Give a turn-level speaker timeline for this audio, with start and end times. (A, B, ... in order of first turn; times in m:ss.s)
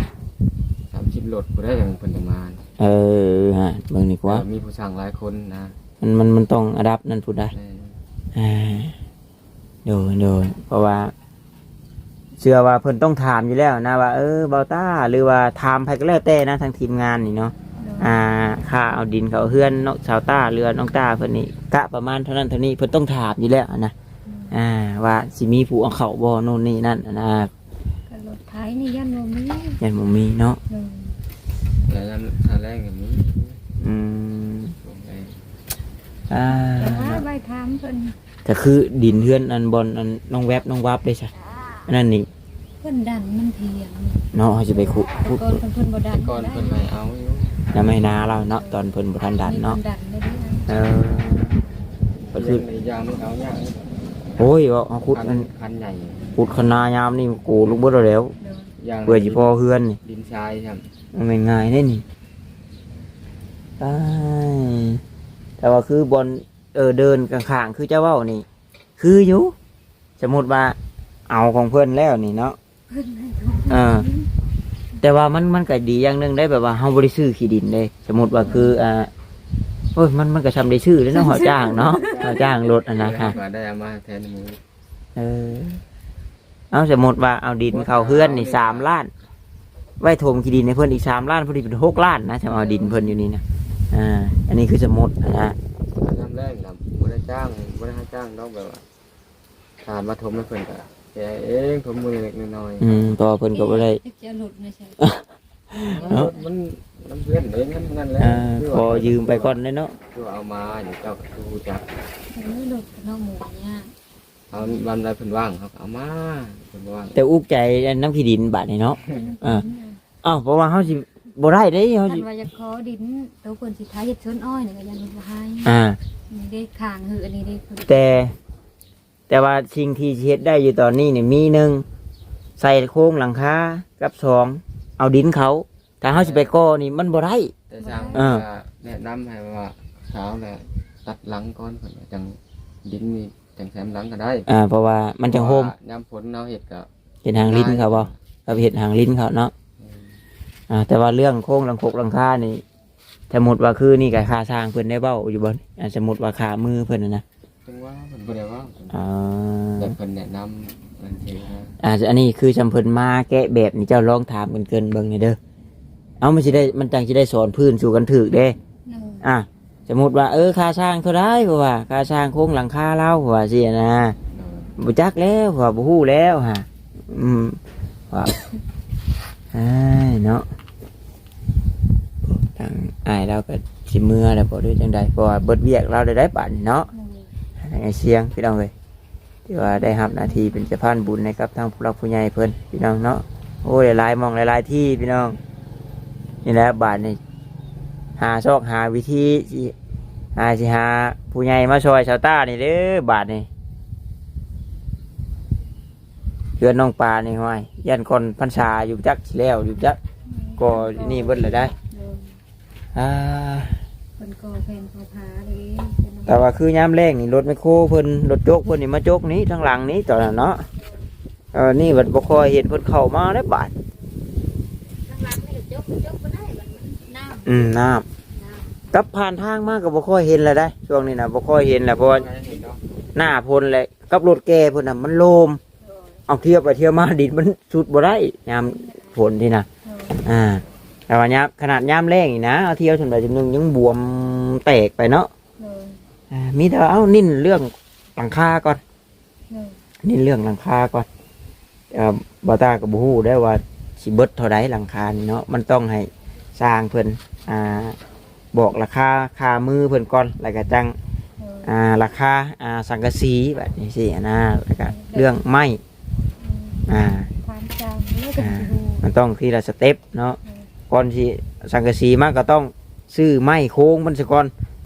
0:00.9-0:02.6 A
0:02.8-0:04.4 B
0:04.2-0:05.8 A
0:06.0-0:07.5 B
0:07.5-0:08.0 A
0:08.3-0:08.9 B
0:09.8-0:11.1 B
0:12.4-0:23.9 B
0:17.8-0:18.2 C
0:24.2-0:24.6 C
0:24.5-0:27.5 B
0:28.1-0:29.8 C
0:29.8-0:30.6 B
0:30.7-0:31.2 C
0:31.8-0:33.6 A
0:33.8-0:34.7 B
0:34.8-0:35.4 A
0:36.3-0:37.2 B
0:36.6-0:38.1 C
0:38.4-0:41.3 B
0:41.9-0:42.3 B
0:42.8-0:46.9 C
0:44.3-0:45.6 B
0:46.1-0:47.6 A
0:47.7-0:49.8 B
0:48.6-0:48.9 C
0:49.4-0:50.7 C
0:50.7-0:51.6 B
0:52.3-0:52.6 B
0:52.3-0:54.0 A
0:54.4-0:55.5 B
0:55.1-0:56.4 A
0:56.4-0:58.3 B
0:58.4-0:58.7 C
0:58.8-1:00.8 A
0:59.0-1:00.0 B
1:01.1-1:02.0 B
1:03.8-1:05.0 B
1:05.6-1:08.4 B
1:09.0-1:09.5 B
1:10.2-1:10.8 B
1:11.3-1:12.6 B
1:12.9-1:14.3 C
1:13.7-1:14.1 B
1:15.0-1:19.1 B
1:18.4-1:18.7 C
1:20.0-1:23.4 B
1:21.1-1:22.5 C
1:21.9-1:24.6 A
1:25.2-1:25.8 B
1:26.7-1:29.1 B
1:27.7-1:28.9 A
1:30.0-1:35.6 B
1:32.6-1:33.0 A
1:32.8-1:33.1 C
1:36.0-1:38.8 A
1:39.8-1:43.1 A
1:42.8-1:44.0 B
1:43.5-1:45.0 C
1:45.0-1:46.3 B
1:45.9-1:46.5 C
1:45.9-1:49.6 A
1:48.2-1:49.9 B
1:50.1-1:51.8 A
1:52.3-1:53.9 C
1:54.5-1:57.2 A
1:57.1-1:59.6 B
1:59.0-1:59.3 A
1:59.1-2:00.0 C
2:00.2-2:02.2 B
2:02.0-2:05.8 C
2:05.6-2:06.0 B
2:06.3-2:08.0 C
2:07.9-2:08.3 B
2:09.3-2:11.8 B
2:12.6-2:17.5 B
2:16.1-2:16.5 A
2:17.7-2:24.5 A
2:17.8-2:18.3 C
2:18.1-2:18.4 B
2:24.5-2:25.7 B
2:25.3-2:28.2 A
2:27.2-2:29.5 B
2:29.8-2:30.2 A
2:30.7-2:32.6 B
2:33.3-2:37.2 B
2:37.6-2:39.0 A
2:38.9-2:40.0 B
2:39.8-2:41.8 A
2:41.8-2:45.4 B
2:46.2-2:48.6 B
2:48.9-2:49.2 C
2:49.2-2:54.2 B
2:54.3-2:54.7 A
2:54.8-2:57.6 B
2:59.5-3:00.4 B
3:02.2-3:06.9 B
3:06.9-3:07.3 C
3:07.6-3:08.7 B
3:09.5-3:15.4 B
3:09.6-3:10.7 C
3:16.4-3:17.2 B
3:18.2-3:19.7 B
3:20.4-3:23.5 B
3:26.6-3:30.0 B
3:30.2-3:32.4 C
3:30.6-3:31.7 B
3:32.9-3:33.8 B
3:34.2-3:36.4 C
3:36.3-3:40.6 B
3:41.5-3:43.7 B
3:45.0-3:47.6 C
3:47.4-3:48.0 B
3:48.3-3:48.8 C
3:48.9-3:52.3 B
3:51.9-3:52.8 A
3:53.1-3:55.6 B
3:55.8-3:56.2 C
3:56.3-3:59.7 B
3:58.6-3:59.2 C
3:59.8-4:00.2 C
4:00.2-4:05.3 B
4:05.6-4:06.0 C
4:06.3-4:08.8 B
4:09.5-4:09.8 C
4:10.0-4:11.1 B
4:11.9-4:18.0 B
4:18.5-4:20.9 B
4:21.4-4:21.7 C
4:21.6-4:25.8 B
4:24.8-4:25.4 C
4:26.4-4:26.8 C
4:26.9-4:27.3 B
4:27.4-4:29.0 C
4:28.4-4:30.4 B
4:30.4-4:30.7 C
4:30.9-4:34.5 B